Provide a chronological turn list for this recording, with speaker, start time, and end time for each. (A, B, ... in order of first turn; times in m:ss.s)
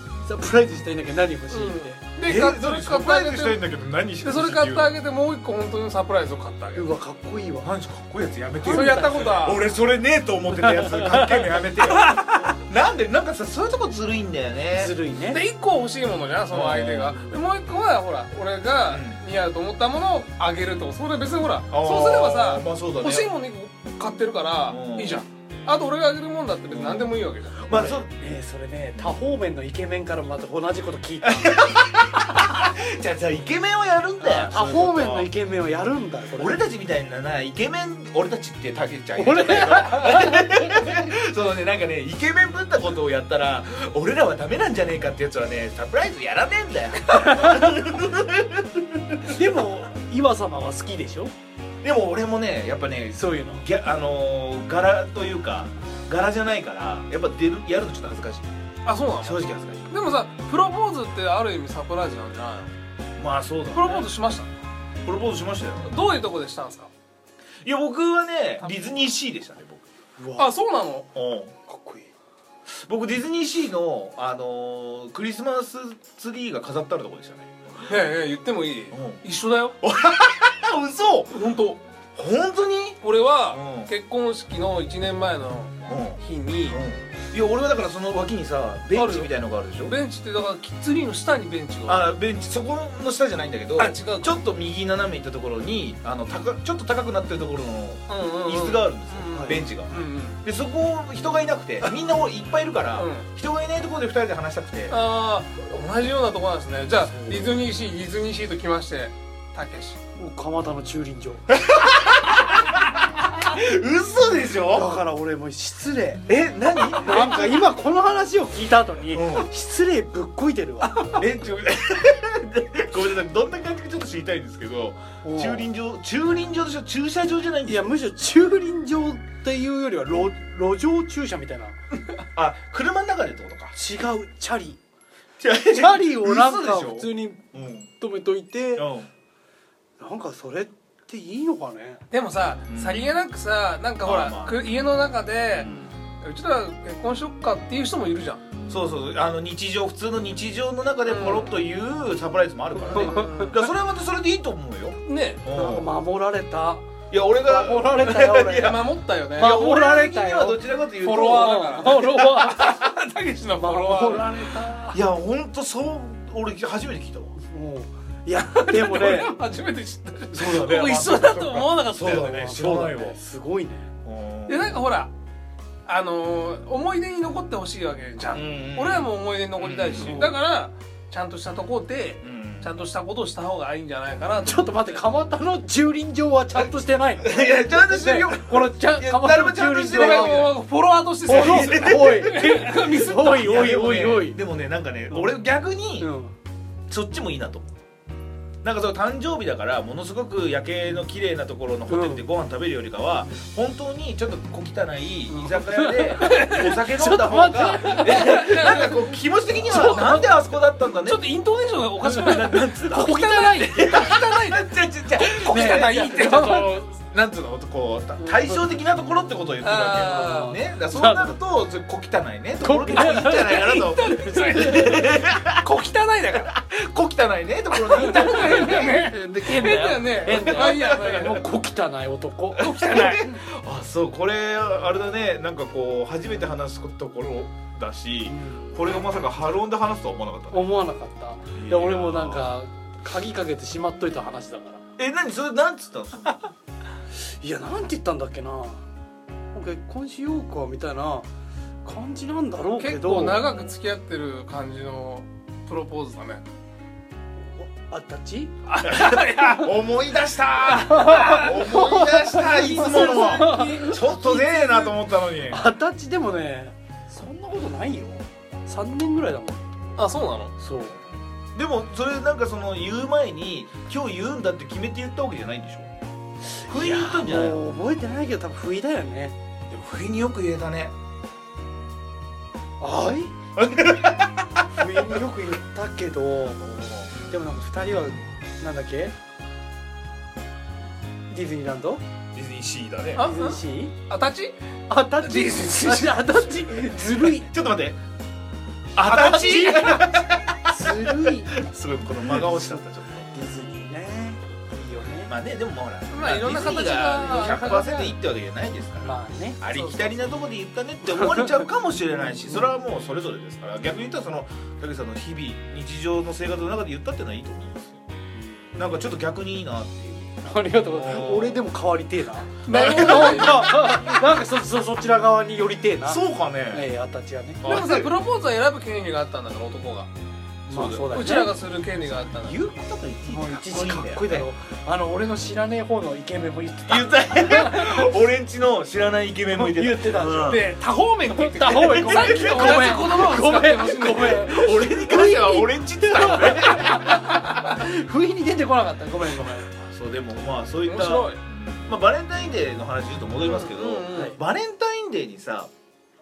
0:00.2-0:02.0 A
0:01.5-0:03.6 B
0:02.2-0:04.9 C
0:04.2-0:06.9 B
0:06.7-0:07.7 A
0:07.6-0:14.9 C
0:08.6-0:09.5 A
0:08.6-0:09.6 B
0:10.6-0:11.4 A
0:11.8-0:12.5 B
0:14.8-0:15.4 A
0:15.3-0:27.6 B
0:16.5-0:17.1 C
0:17.0-0:17.4 A
0:18.9-0:19.2 C
0:21.7-0:23.3 C
0:24.7-0:25.2 C
0:26.7-0:28.1 C
0:27.7-0:31.6 A
0:31.2-0:35.3 C
0:34.2-0:36.6 A
0:36.4-0:49.4 C
0:39.2-0:40.6 A
0:47.2-0:47.7 A
0:49.3-0:51.3 A
0:51.8-0:58.5 C
0:53.1-0:53.6 A
0:58.8-1:02.7 B
0:59.2-0:59.9 C
1:03.2-1:04.0 C
1:03.7-1:04.5 B
1:05.0-1:05.9 C
1:05.8-1:06.9 B
1:07.6-1:09.8 C
1:10.2-1:10.5 A
1:10.4-1:11.1 B
1:11.1-1:11.5 C
1:11.6-1:12.1 A
1:12.7-1:18.0 C
1:17.8-1:19.8 B
1:18.9-1:19.2 C
1:19.8-1:21.4 C
1:21.3-1:21.8 B
1:22.1-1:23.9 C
1:23.0-1:26.8 B
1:25.8-1:30.0 C
1:28.9-1:32.1 B
1:31.9-1:45.0 C
1:33.8-1:34.4 B
1:38.1-1:40.4 B
1:39.3-1:39.6 A
1:43.0-1:43.2 B
1:44.9-1:50.0 B
1:46.9-1:47.6 C
1:50.2-1:51.4 A
1:51.5-1:54.9 C
1:54.7-1:56.3 A
1:56.2-1:57.7 C
1:56.8-2:01.2 A
1:59.1-1:59.5 C
2:01.1-2:08.0 C
2:05.2-2:05.7 A
2:07.6-2:11.8 A
2:12.3-2:13.7 C
2:13.7-2:14.8 A
2:15.4-2:17.9 C
2:15.7-2:17.4 A
2:18.0-2:18.9 A
2:18.8-2:19.1 C
2:20.0-2:22.0 A
2:22.1-2:28.4 B
2:22.7-2:23.2 C
2:24.0-2:24.9 C
2:25.5-2:26.0 C
2:28.7-2:35.9 C
2:31.0-2:31.6 B
2:32.9-2:33.4 A
2:32.9-2:33.6 B
2:35.0-2:35.4 B
2:35.5-2:36.8 A
2:37.1-2:41.9 C
2:37.4-2:38.8 A
2:38.4-2:39.5 B
2:39.4-2:42.8 A
2:41.0-2:44.3 B
2:43.5-2:45.0 A
2:44.9-2:47.3 C
2:47.4-2:49.4 A
2:48.5-2:52.3 B
2:50.3-2:53.2 C
2:52.0-2:53.9 A
2:54.0-2:54.8 C
2:54.5-2:55.1 B
2:55.8-3:05.0 B
2:58.3-3:00.2 C
3:00.0-3:00.4 A
3:02.2-3:02.7 C
3:04.4-3:10.5 A
3:07.2-3:10.5 C
3:09.8-3:13.5 B
3:11.2-3:14.4 A
3:11.3-3:12.6 C
3:13.2-3:16.1 C
3:16.0-3:16.3 A
3:16.9-3:17.7 C
3:18.6-3:31.2 C
3:21.9-3:22.2 A
3:25.3-3:28.9 A
3:26.2-3:26.8 B
3:27.7-3:29.1 B
3:29.6-3:30.3 A
3:29.7-3:30.2 B
3:31.0-3:36.8 B
3:32.0-3:34.2 A
3:33.8-3:45.6 C
3:35.4-3:36.8 A
3:38.2-3:38.7 A
3:39.6-3:40.5 B
3:40.1-3:41.4 A
3:42.6-3:43.6 A
3:42.9-3:46.5 B
3:46.5-3:48.9 C
3:47.9-3:51.5 B
3:48.0-3:52.7 A
3:50.3-3:51.3 C
3:52.6-3:53.3 B
3:52.6-4:00.7 C
3:58.2-3:59.0 A
4:00.5-4:04.8 A
4:01.5-4:02.5 C
4:05.0-4:06.5 C
4:07.2-4:08.8 A
4:09.5-4:11.3 A
4:11.8-4:13.7 A
4:12.8-4:16.4 B
4:17.4-4:18.5 A
4:18.7-4:19.7 B
4:18.8-4:25.6 C
4:20.7-4:21.6 B
4:21.0-4:24.9 A
4:22.4-4:24.5 B
4:25.5-4:30.0 A
4:30.0-4:30.5 B
4:30.6-4:31.0 A
4:31.5-4:35.9 C
4:36.5-4:39.3 A
4:36.6-4:37.6 C
4:39.7-4:40.9 C
4:42.8-4:43.3 A
4:43.6-4:44.5 C
4:44.8-4:49.1 A
4:46.8-4:47.1 C
4:51.3-4:52.0 A
4:52.3-4:53.3 C
4:53.2-4:54.5 B
4:53.2-4:53.9 A
4:54.9-4:57.5 A
4:55.2-4:56.4 B
4:57.0-4:58.0 C
4:58.9-5:03.3 C
4:59.0-5:01.6 A
5:02.2-5:05.3 A
5:05.3-5:18.0 C
5:06.1-5:08.2 B
5:07.2-5:07.7 A
5:09.0-5:09.6 A
5:09.7-5:10.2 B
5:11.1-5:11.6 A
5:18.4-5:19.0 A
5:18.7-5:20.3 C
5:20.4-5:27.6 A
5:20.8-5:21.6 C
5:22.6-5:23.8 B
5:22.7-5:24.2 C
5:26.0-5:26.8 C
5:27.6-5:28.1 C
5:27.6-5:30.1 B
5:30.7-5:31.5 A
5:30.7-5:31.1 C
5:31.1-5:32.6 B
5:32.4-5:34.5 C
5:33.2-5:38.0 A
5:36.8-5:40.7 C
5:39.5-5:40.6 A
5:40.4-5:44.5 B
5:41.2-5:49.7 A
5:41.7-5:43.2 C
5:44.1-5:47.4 C
5:49.7-5:55.7 C
5:50.8-5:51.4 B
5:53.4-5:54.4 B
5:54.1-5:54.4 A